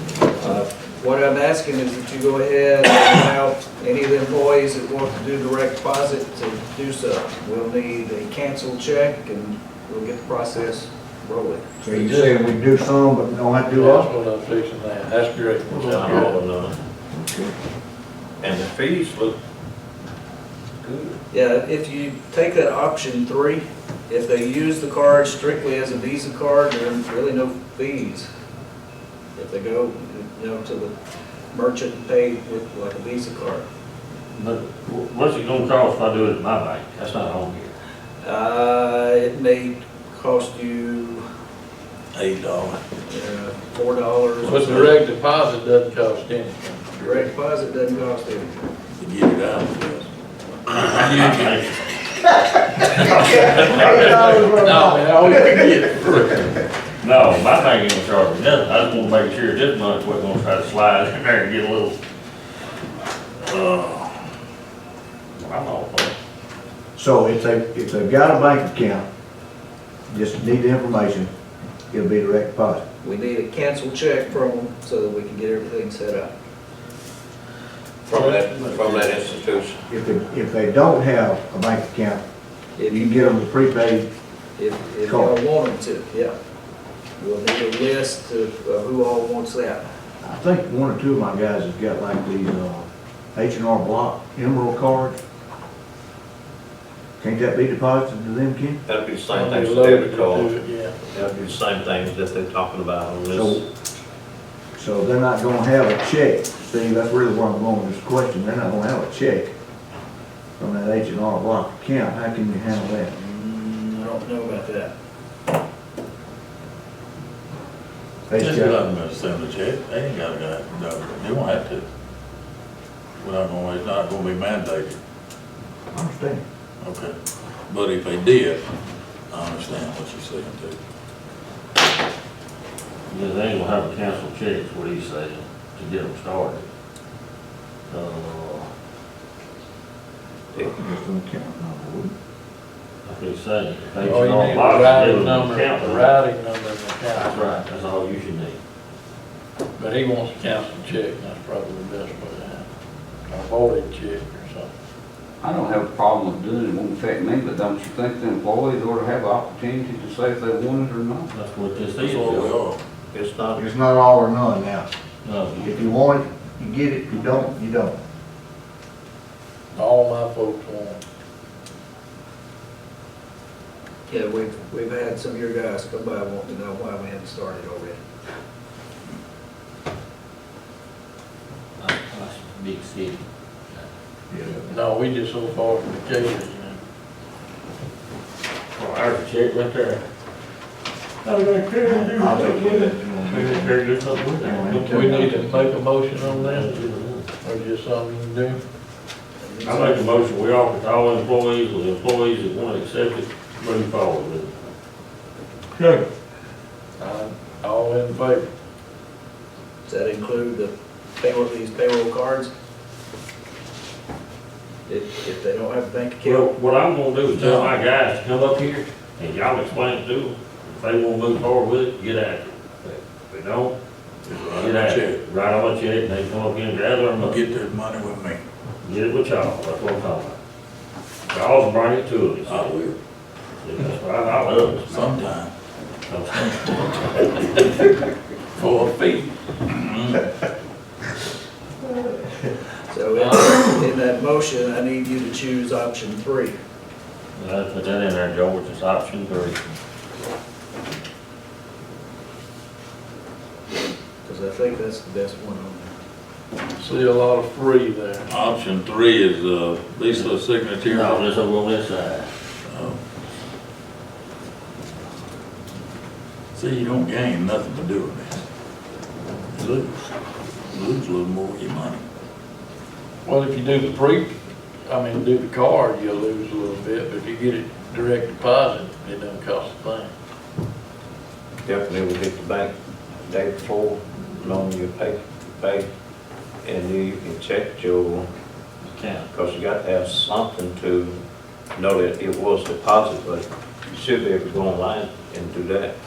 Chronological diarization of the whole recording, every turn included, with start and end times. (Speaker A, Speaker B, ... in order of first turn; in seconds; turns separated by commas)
Speaker A: 0.3-11.7, Speaker B: 11.8-14.1, Speaker C: 11.9-12.5, Speaker C: 13.7-16.4, Speaker D: 15.7-16.7, Speaker B: 17.1-17.5, Speaker D: 18.4-19.4, Speaker D: 20.8-21.2, Speaker A: 21.3-28.3, Speaker A: 29.4-30.9, Speaker A: 31.5-33.6, Speaker E: 34.3-37.7, Speaker A: 38.2-41.2, Speaker F: 42.1-42.8, Speaker A: 43.1-44.9, Speaker F: 44.4-45.0, Speaker C: 44.5-47.3, Speaker A: 46.9-48.5, Speaker F: 49.0-50.0, Speaker F: 50.6-52.0, Speaker E: 50.8-51.8, Speaker C: 51.0-51.3, Speaker E: 52.8-54.2, Speaker B: 53.2-55.8, Speaker C: 53.5-56.6, Speaker E: 57.0-62.0, Speaker F: 63.5-64.0, Speaker E: 65.3-66.1, Speaker B: 67.0-69.0, Speaker B: 70.1-71.3, Speaker B: 71.9-72.8, Speaker A: 73.0-76.3, Speaker D: 78.0-79.8, Speaker B: 79.9-82.2, Speaker A: 82.8-83.3, Speaker B: 82.9-84.1, Speaker A: 84.6-86.3, Speaker B: 85.0-85.3, Speaker A: 87.2-89.8, Speaker B: 90.2-95.2, Speaker B: 97.2-98.8, Speaker D: 98.9-100.5, Speaker C: 99.3-101.0, Speaker D: 101.1-103.6, Speaker B: 103.3-103.6, Speaker B: 104.8-109.5, Speaker B: 110.6-113.1, Speaker A: 113.1-114.9, Speaker B: 118.3-118.8, Speaker F: 118.4-121.8, Speaker F: 123.2-125.0, Speaker B: 125.9-126.4, Speaker F: 126.8-127.1, Speaker F: 127.7-128.7, Speaker F: 129.3-130.8, Speaker E: 133.1-136.7, Speaker E: 137.9-138.7, Speaker B: 140.6-142.1, Speaker E: 143.0-146.2, Speaker C: 144.0-147.6, Speaker E: 147.1-148.6, Speaker C: 149.8-152.6, Speaker C: 153.3-154.7, Speaker G: 155.4-161.3, Speaker E: 161.3-162.6, Speaker F: 162.0-162.8, Speaker D: 163.1-163.6, Speaker B: 163.5-164.9, Speaker E: 165.2-165.8, Speaker B: 165.6-167.9, Speaker C: 169.7-171.0, Speaker A: 174.1-178.0, Speaker E: 181.8-183.2, Speaker B: 184.3-184.7, Speaker C: 184.7-186.8, Speaker E: 188.7-190.0, Speaker E: 191.2-197.3, Speaker B: 191.8-195.4, Speaker C: 194.9-196.7, Speaker C: 197.4-198.6, Speaker A: 199.4-200.1, Speaker E: 199.6-204.5, Speaker C: 207.0-208.4, Speaker A: 209.9-212.5, Speaker A: 214.9-216.5, Speaker E: 216.2-223.8, Speaker F: 217.4-217.7, Speaker F: 224.2-225.2, Speaker E: 224.5-227.4, Speaker F: 227.2-228.4, Speaker E: 228.8-230.4, Speaker E: 231.3-232.8, Speaker F: 232.5-233.0, Speaker E: 233.6-235.3, Speaker F: 234.9-235.5, Speaker E: 236.1-237.0, Speaker F: 236.4-236.7, Speaker C: 238.6-239.3, Speaker F: 239.6-240.3, Speaker A: 242.9-246.6, Speaker C: 243.2-243.6, Speaker E: 247.3-249.6, Speaker A: 254.2-255.9, Speaker C: 256.8-258.3, Speaker F: 258.3-261.2, Speaker E: 260.8-262.3, Speaker F: 262.7-263.0, Speaker F: 266.5-268.4, Speaker F: 269.5-270.1, Speaker F: 270.7-272.0, Speaker C: 273.2-274.3, Speaker C: 274.9-280.1, Speaker D: 281.6-282.7, Speaker D: 283.2-285.9, Speaker D: 286.6-288.3, Speaker E: 288.8-289.3, Speaker D: 289.3-291.2, Speaker D: 291.7-295.9